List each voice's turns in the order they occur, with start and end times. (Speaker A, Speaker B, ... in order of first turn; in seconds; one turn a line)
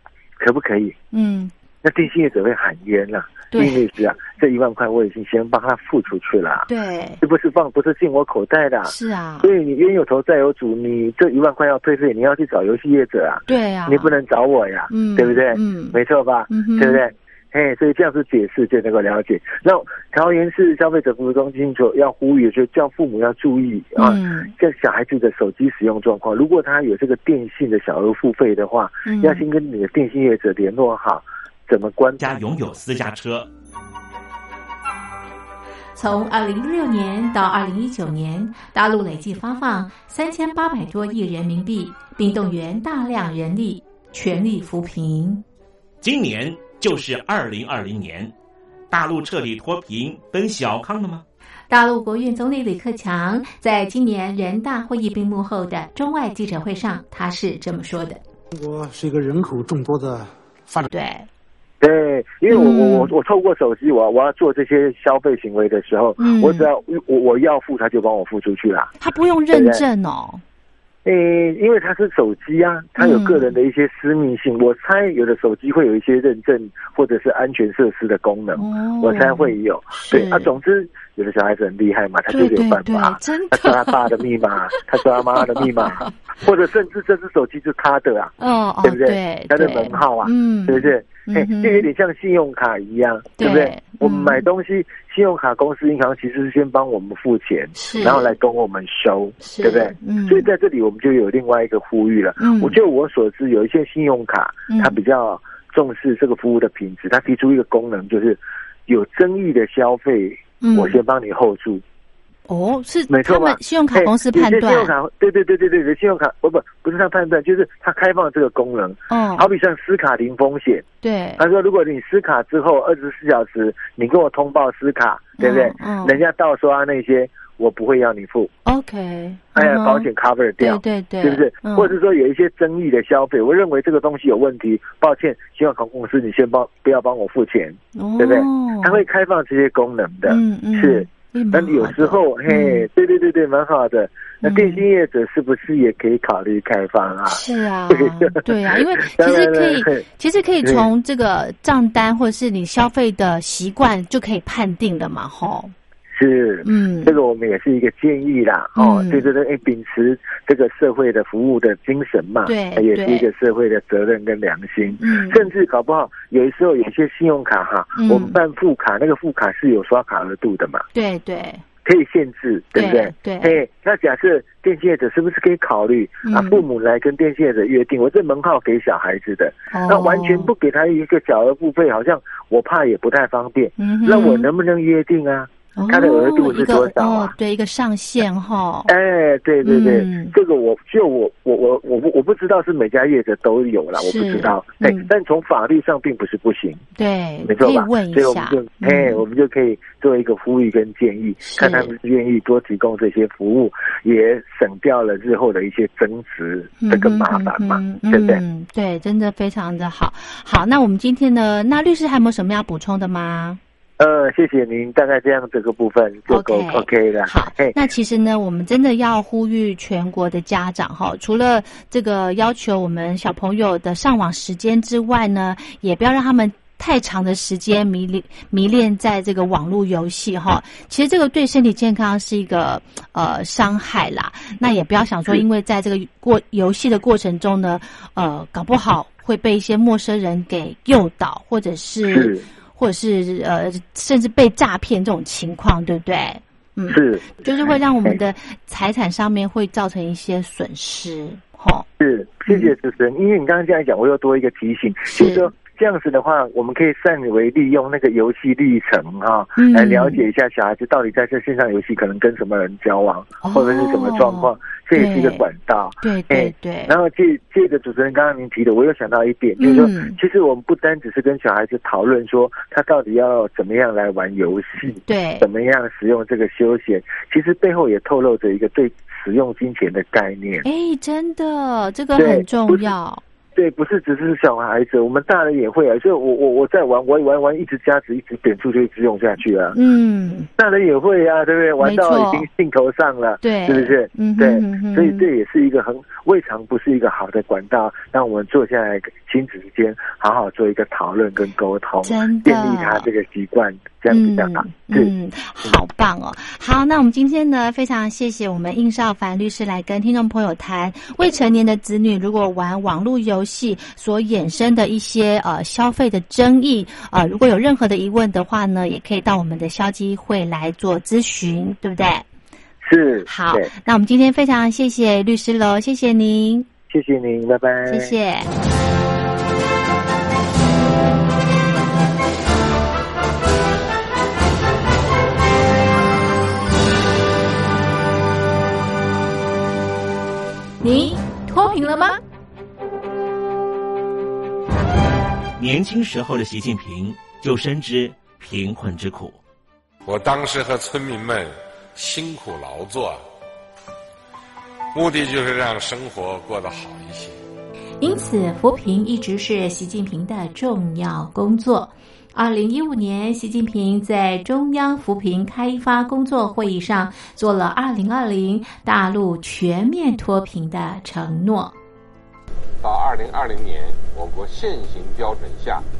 Speaker A: 0.4-0.9
Speaker B: 1.1-1.5
Speaker A: 1.8-6.7
Speaker B: 3.5-3.8
Speaker B: 6.7-7.2
Speaker A: 7.2-32.2
Speaker B: 8.8-9.5
Speaker B: 13.5-14.1
Speaker B: 14.9-16.0
Speaker B: 16.5-17.0
Speaker B: 24.0-24.5
Speaker B: 29.1-29.4
Speaker C: 32.2-33.5
Speaker D: 36.0-45.4
Speaker C: 46.0-48.3
Speaker C: 48.9-51.2
Speaker D: 51.7-58.2
Speaker E: 58.5-60.9
Speaker B: 60.9-61.3
Speaker A: 61.8-68.9
Speaker B: 62.5-63.1
Speaker B: 66.2-66.7
Speaker B: 69.0-70.4
Speaker A: 69.5-69.8
Speaker A: 71.0-111.8
Speaker B: 73.0-73.5
Speaker B: 78.6-80.5
Speaker B: 82.3-84.0
Speaker B: 85.4-86.1
Speaker B: 88.4-91.9
Speaker B: 93.4-94.4
Speaker B: 97.8-98.3
Speaker B: 99.4-100.5
Speaker B: 102.4-102.8
Speaker B: 104.7-105.0
Speaker B: 110.6-111.0
Speaker B: 112.5-114.9
Speaker A: 113.1-120.9
Speaker B: 119.1-119.5
Speaker B: 121.0-121.4
Speaker A: 121.4-128.5
Speaker B: 125.4-126.2
Speaker B: 128.7-130.1
Speaker A: 129.6-150.1
Speaker B: 130.6-132.0
Speaker B: 138.0-139.0
Speaker B: 140.3-142.9
Speaker B: 144.4-144.8
Speaker B: 147.3-155.7
Speaker A: 150.6-150.9
Speaker A: 156.1-170.9
Speaker B: 156.7-157.2
Speaker B: 158.8-159.3
Speaker B: 162.5-163.3
Speaker B: 165.0-165.4
Speaker B: 168.0-168.4
Speaker B: 170.9-171.6
Speaker A: 171.8-187.3
Speaker B: 172.8-173.6
Speaker B: 176.3-176.6
Speaker B: 179.7-180.5
Speaker B: 183.8-184.5
Speaker B: 185.8-188.9
Speaker A: 188.9-196.8
Speaker B: 189.6-190.3
Speaker B: 194.0-195.1
Speaker B: 197.0-199.2
Speaker A: 197.4-208.4
Speaker B: 201.4-201.9
Speaker B: 206.8-213.6
Speaker A: 214.0-217.8
Speaker B: 216.3-251.9
Speaker A: 242.1-242.4
Speaker A: 246.9-248.2
Speaker A: 252.0-280.7
Speaker B: 252.5-252.7
Speaker B: 255.1-255.5
Speaker B: 259.6-260.2
Speaker B: 263.4-265.4
Speaker B: 266.0-267.0
Speaker B: 269.6-270.2
Speaker B: 275.1-275.5
Speaker B: 280.6-283.2
Speaker A: 282.2-282.9
Speaker A: 283.6-289.8
Speaker B: 289.7-290.5
Speaker A: 290.6-305.1
Speaker B: 291.8-292.5
Speaker B: 293.4-295.3
Speaker B: 302.0-303.1
Speaker B: 304.1-322.3
Speaker A: 322.8-323.7
Speaker B: 323.3-326.7
Speaker A: 326.9-328.1
Speaker B: 327.9-328.5
Speaker D: 340.8-342.2
Speaker C: 345.6-349.4
Speaker F: 350.1-353.2
Speaker F: 354.9-357.4
Speaker D: 358.0-371.8
Speaker G: 372.8-375.9